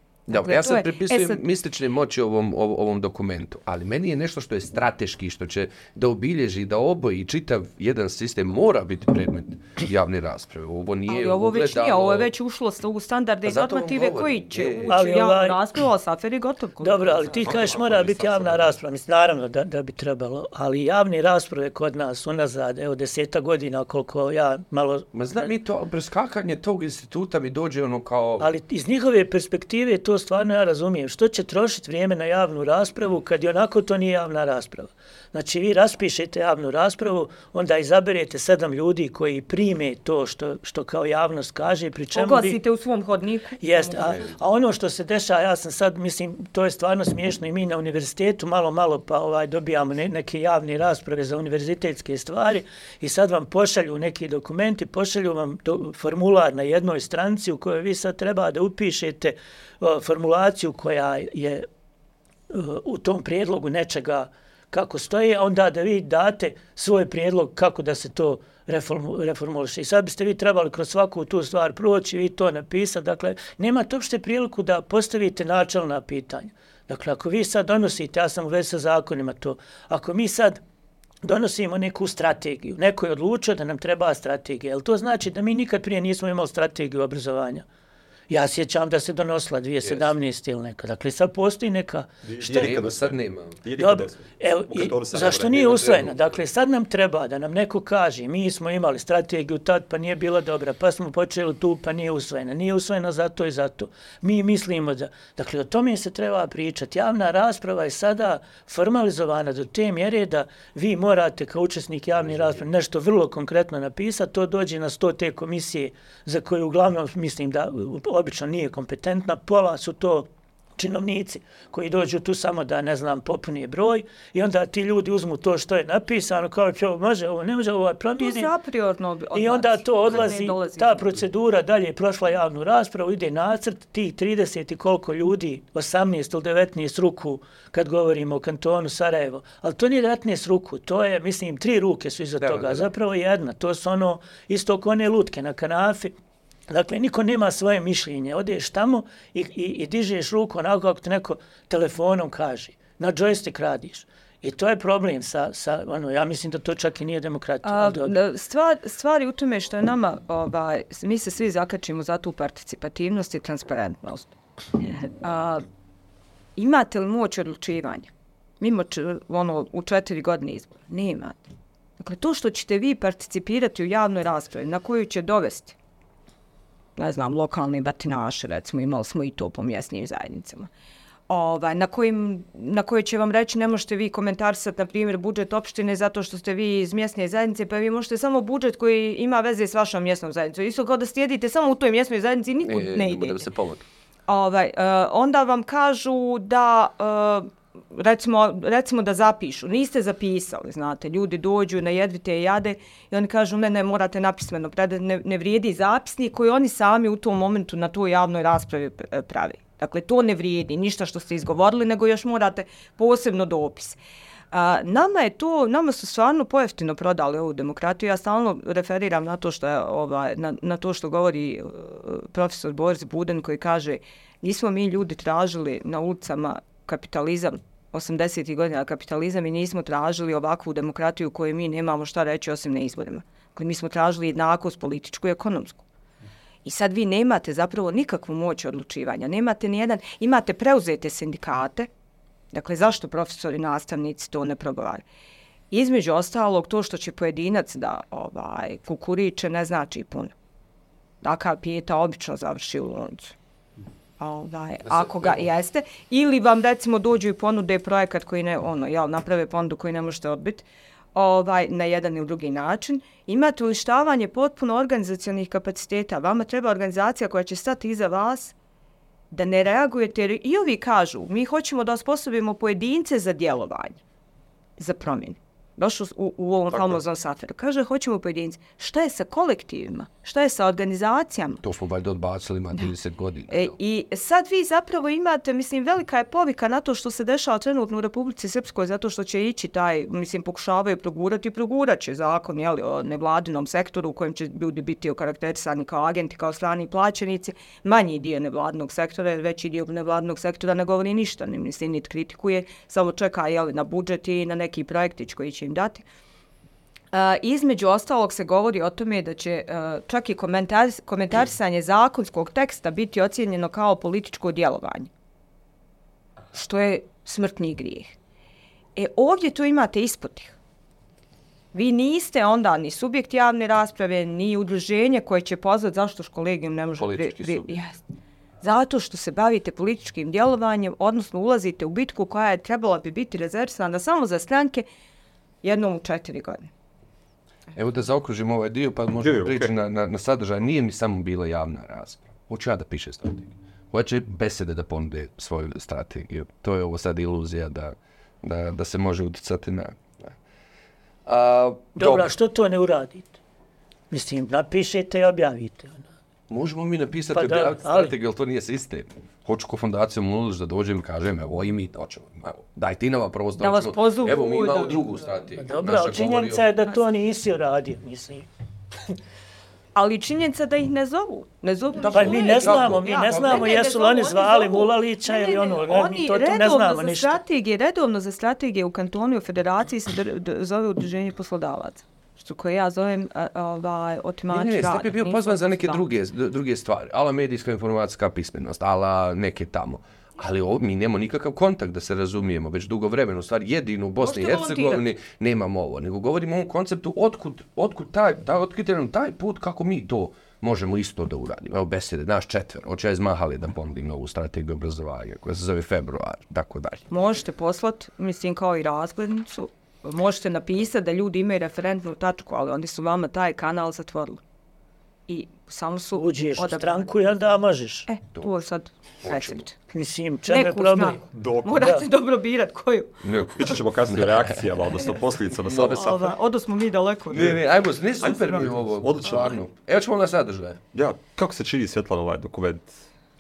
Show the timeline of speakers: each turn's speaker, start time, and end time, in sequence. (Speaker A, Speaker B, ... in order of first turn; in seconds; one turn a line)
Speaker A: 0.3-1.4
Speaker B: 0.3-12.3
Speaker A: 11.1-17.5
Speaker B: 13.4-15.0
Speaker C: 14.9-15.6
Speaker C: 16.8-25.1
Speaker D: 17.3-18.8
Speaker B: 25.1-28.5
Speaker C: 28.4-42.6
Speaker A: 42.1-44.3
Speaker C: 43.6-61.7
Speaker B: 44.0-44.4
Speaker C: 62.5-80.6
Speaker C: 81.2-87.7
Speaker C: 88.3-92.1
Speaker D: 92.2-95.6
Speaker B: 92.4-93.6
Speaker C: 93.8-128.5
Speaker B: 95.5-96.3
Speaker A: 128.2-131.1
Speaker C: 129.3-146.2
Speaker B: 142.4-142.9
Speaker C: 146.7-158.1
Speaker A: 157.6-164.3
Speaker A: 164.9-165.7
Speaker A: 166.6-171.4
Speaker A: 172.0-175.8
Speaker A: 177.0-180.7
Speaker A: 181.3-193.4
Speaker B: 192.6-193.8
Speaker A: 194.3-214.0
Speaker A: 214.5-235.8
Speaker A: 236.6-241.9
Speaker A: 242.5-245.0
Speaker A: 245.7-250.3
Speaker A: 251.2-253.3
Speaker A: 254.2-268.5
Speaker B: 254.9-255.5
Speaker A: 269.3-274.0
Speaker A: 274.8-281.6
Speaker D: 276.7-277.0
Speaker B: 281.6-283.8
Speaker A: 283.5-306.0
Speaker A: 307.1-315.1
Speaker A: 316.5-318.1
Speaker A: 319.0-320.6
Speaker A: 321.7-328.0
Speaker B: 327.0-327.8
Speaker A: 328.6-334.9
Speaker A: 335.6-336.7
Speaker B: 337.8-350.4
Speaker D: 339.2-339.7
Speaker B: 351.3-352.3
Speaker C: 352.0-353.3
Speaker C: 354.1-356.1
Speaker B: 356.5-366.7
Speaker C: 357.3-358.1
Speaker A: 363.6-365.2
Speaker C: 365.6-368.5
Speaker A: 369.9-386.0
Speaker B: 372.0-373.7
Speaker C: 372.1-377.4
Speaker B: 384.5-407.0
Speaker A: 394.2-395.0
Speaker A: 407.1-414.4
Speaker A: 415.3-417.1
Speaker C: 416.1-418.1
Speaker A: 418.1-419.8
Speaker B: 419.2-419.6
Speaker C: 419.9-422.1
Speaker A: 420.5-423.2
Speaker D: 421.4-421.9
Speaker B: 423.2-424.6
Speaker D: 423.6-426.4
Speaker B: 425.6-426.1
Speaker A: 425.9-427.6
Speaker B: 427.3-430.8
Speaker D: 427.3-427.6
Speaker D: 428.2-429.6
Speaker D: 430.9-433.0